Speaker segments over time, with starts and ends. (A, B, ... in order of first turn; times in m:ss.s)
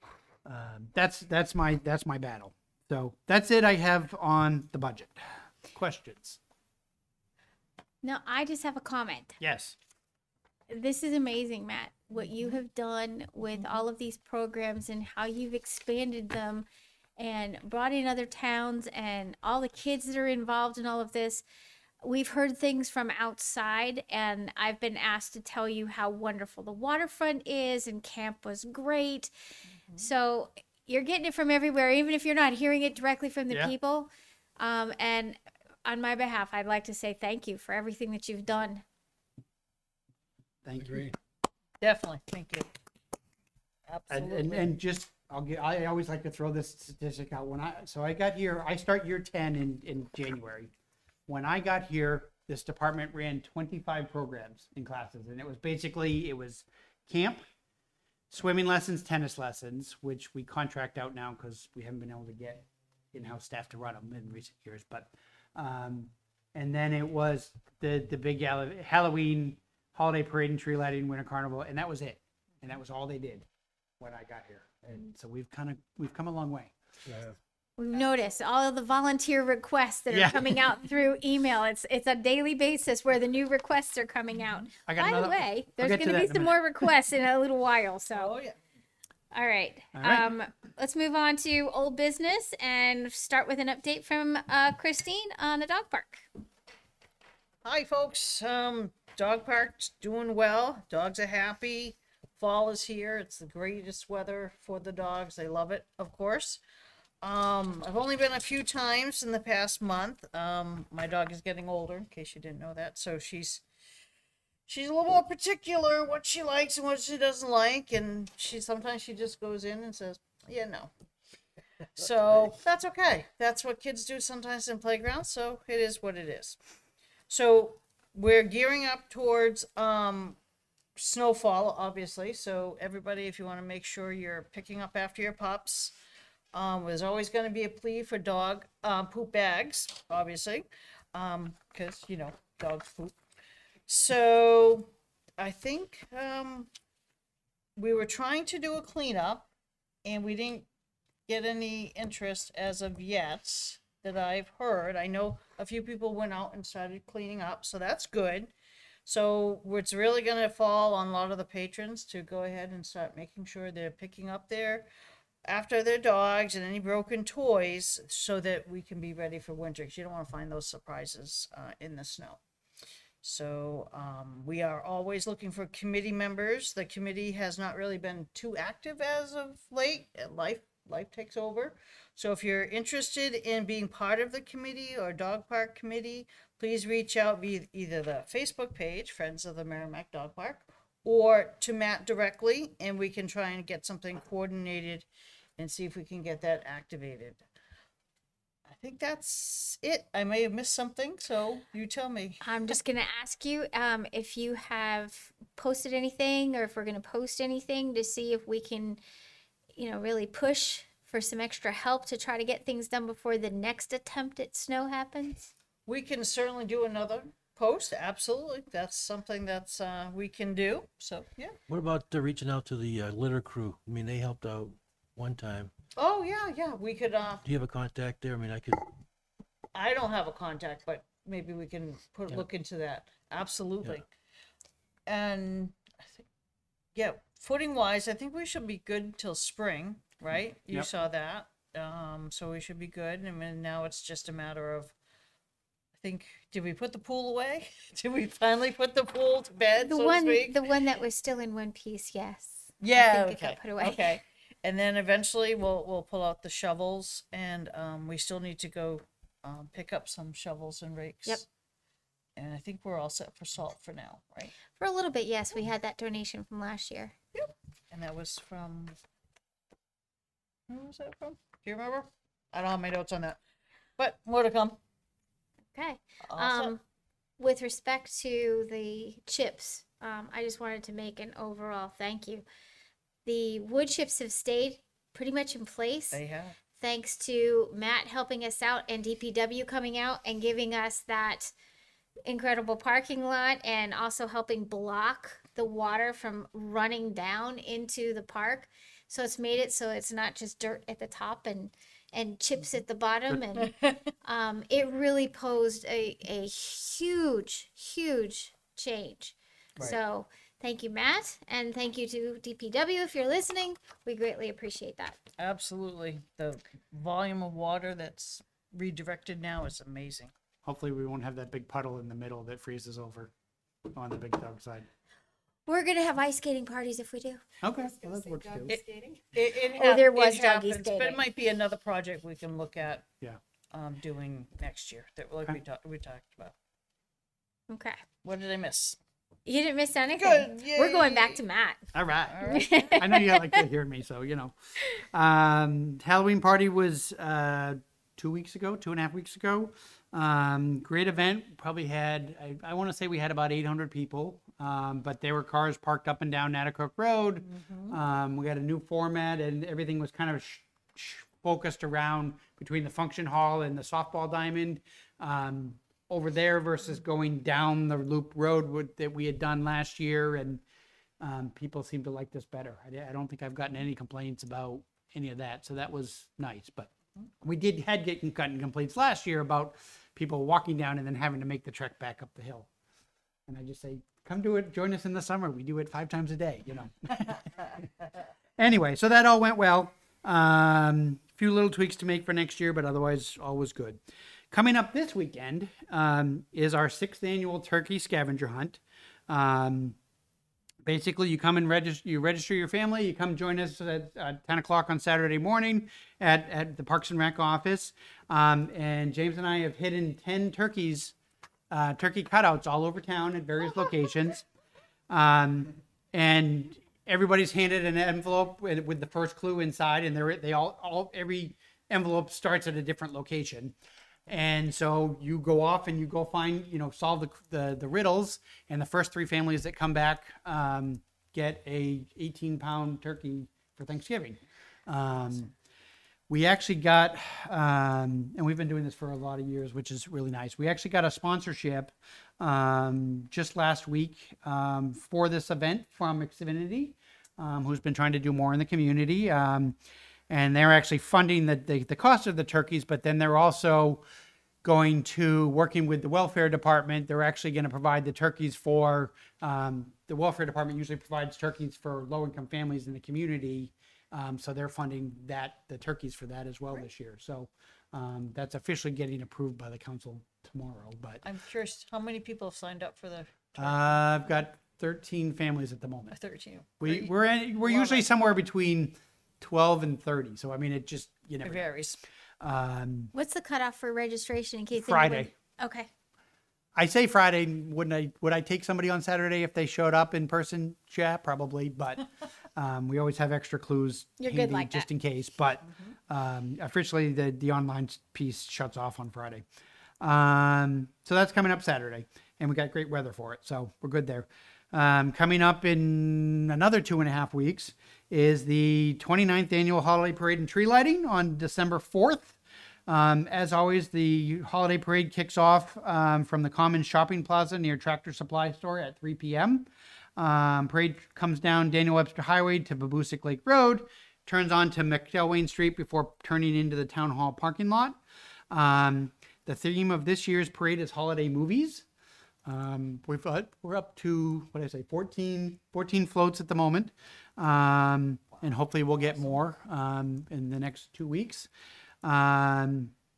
0:00.4-0:05.2 A
0:05.7-0:06.4 A
0:08.0-0:09.4 B
0:09.4-0:09.8 A
0:10.7-0:16.6 B
0:17.2-0:21.4 B
0:22.0-0:29.3 B
0:30.0-0:38.8 B
0:40.6-0:41.1 A
0:40.8-0:41.1 C
0:41.8-0:42.7 D
0:43.9-0:44.7 D
0:44.1-0:50.7 A
0:51.3-0:57.4 A
0:58.3-1:13.5 A
1:14.0-1:16.7 A
1:17.1-1:17.4 C
1:17.8-1:28.3 B
1:20.1-1:20.6 A
1:24.9-1:26.6 A
1:28.1-1:28.6 D
1:29.3-1:36.2 B
1:29.9-1:30.2 A
1:37.6-1:46.6 D
1:47.2-1:53.6 D
1:54.7-2:00.9 D
2:01.9-2:06.6 D
2:07.3-2:10.4 D
2:11.0-2:15.9 D
2:16.5-2:23.2 D
2:23.9-2:26.7 D
2:27.8-2:29.5 D
2:30.0-2:30.7 D
2:31.3-2:38.5 D
2:39.1-2:44.9 D
2:45.4-2:52.4 D
2:53.2-3:15.1 D
3:15.6-3:17.4 D
3:18.7-3:22.8 D
3:22.4-3:29.0 B
3:29.8-3:35.5 B
3:35.9-3:41.6 D
3:41.7-3:45.7 C
3:46.0-3:47.4 D
3:47.4-3:48.9 C
3:49.7-3:54.0 D
3:55.1-3:56.2 D
3:56.9-4:04.9 D
4:06.0-4:10.6 D
4:09.8-4:14.1 B
4:12.8-4:21.5 D
4:22.4-4:24.5 D
4:24.6-4:27.2 B
4:27.4-4:29.0 D
4:30.7-4:33.4 D
4:34.0-4:34.8 D
4:35.7-4:36.8 B
4:36.2-4:36.8 D
4:37.4-4:42.4 B
4:43.2-4:46.2 B
4:46.1-4:46.6 D
4:46.7-4:51.5 B
4:52.2-5:03.7 B
5:03.6-5:04.0 D
5:04.2-5:15.2 B
5:15.4-5:20.3 D
5:20.6-5:23.3 A
5:23.9-5:24.9 A
5:25.7-5:31.2 B
5:27.6-5:28.8 A
5:29.3-5:33.1 D
5:33.7-5:36.6 D
5:37.7-5:38.0 B
5:38.2-5:39.0 D
5:39.5-5:41.8 B
5:40.2-5:41.4 D
5:41.9-6:10.6 A
5:42.3-5:43.1 D
5:42.4-5:43.6 B
5:57.4-5:58.0 D
6:11.2-6:22.7 A
6:23.5-6:27.9 A
6:28.6-6:34.0 A
6:34.5-6:40.0 A
6:40.8-6:51.1 A
6:51.7-6:54.4 A
6:55.1-7:03.8 A
7:04.3-7:15.5 A
7:16.3-7:29.8 A
7:30.3-7:34.0 A
7:34.6-7:51.2 A
7:51.2-7:53.8 D
7:53.6-7:56.2 A
7:56.1-7:58.1 D
7:56.8-8:01.6 A
8:01.4-8:02.0 D
8:02.4-8:03.1 A
8:03.1-8:05.9 B
8:04.8-8:05.3 A
8:06.8-8:19.4 A
8:14.2-8:14.9 B
8:20.0-8:48.0 A
8:48.5-8:51.9 A
8:52.5-9:01.5 A
9:02.0-9:02.9 A